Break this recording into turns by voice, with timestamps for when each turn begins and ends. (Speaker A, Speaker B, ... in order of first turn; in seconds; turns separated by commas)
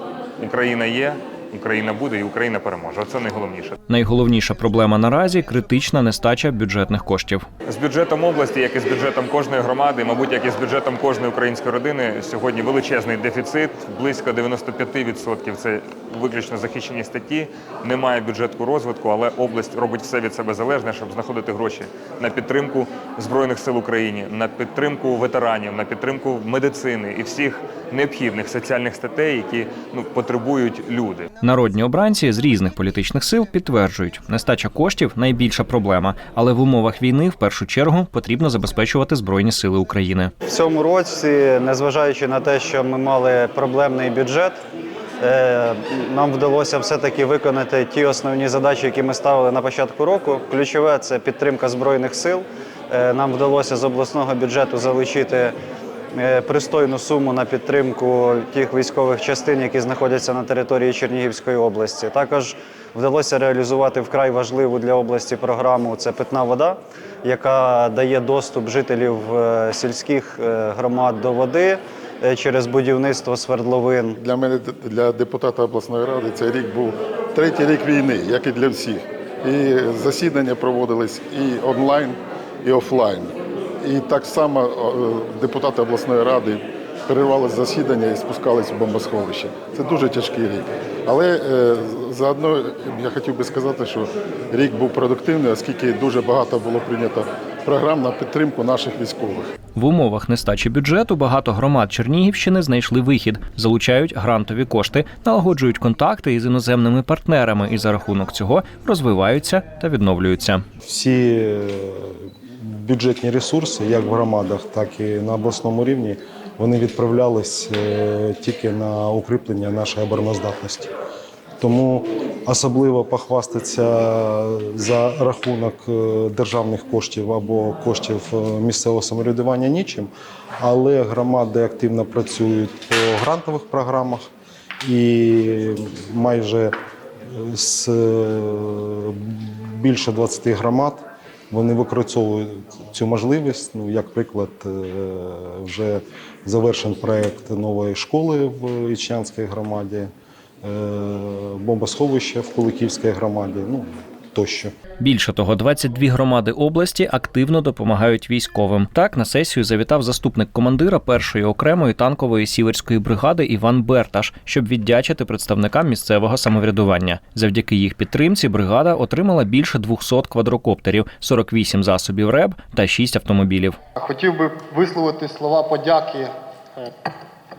Speaker A: 0.4-3.8, Speaker B: 3.9-7.5, Speaker A: 7.7-31.3, Speaker B: 31.4-40.3, Speaker C: 40.5-44.6, Speaker C: 45.2-55.5, Speaker C: 56.1-74.2, Speaker D: 74.2-99.5, Speaker B: 99.8-110.6, Speaker E: 110.8-120.9, Speaker E: 121.6-134.3, Speaker E: 134.8-136.7, Speaker E: 137.3-150.1, Speaker E: 150.6-154.7, Speaker B: 155.0-173.8, Speaker F: 174.0-176.9